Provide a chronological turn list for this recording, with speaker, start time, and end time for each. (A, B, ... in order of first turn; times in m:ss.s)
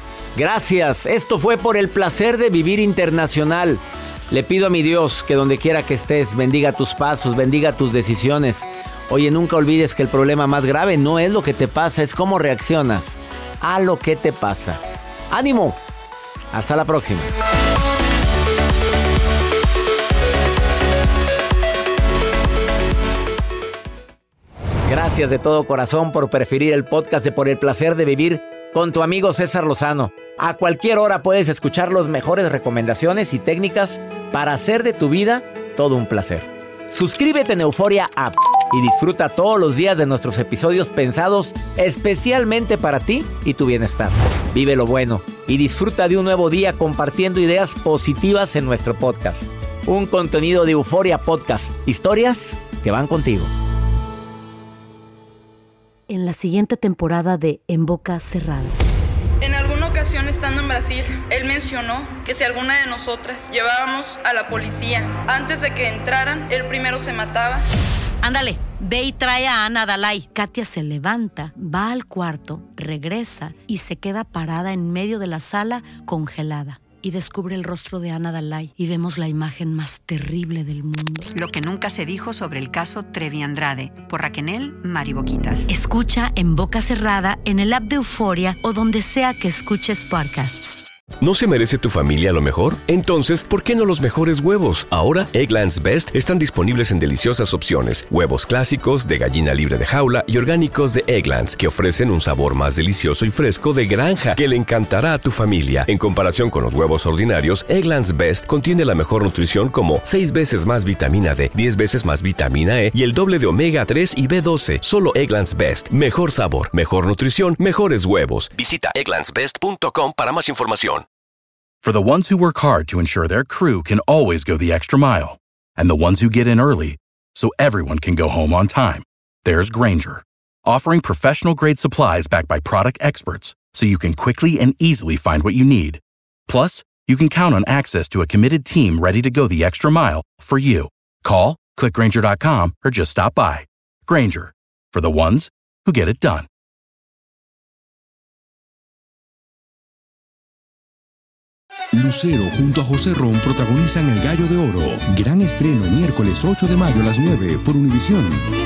0:00.3-0:15.8 A
0:16.5-0:17.3 A
0:24.8-0:53.5 A
0:56.1-0:58.7 B
0:59.4-1:07.6 C
1:08.2-1:21.3 B
1:21.3-1:25.7 D
1:25.7-1:30.8 B
1:31.2-2:01.0 E
2:01.8-2:26.5 F
2:31.9-2:38.5 G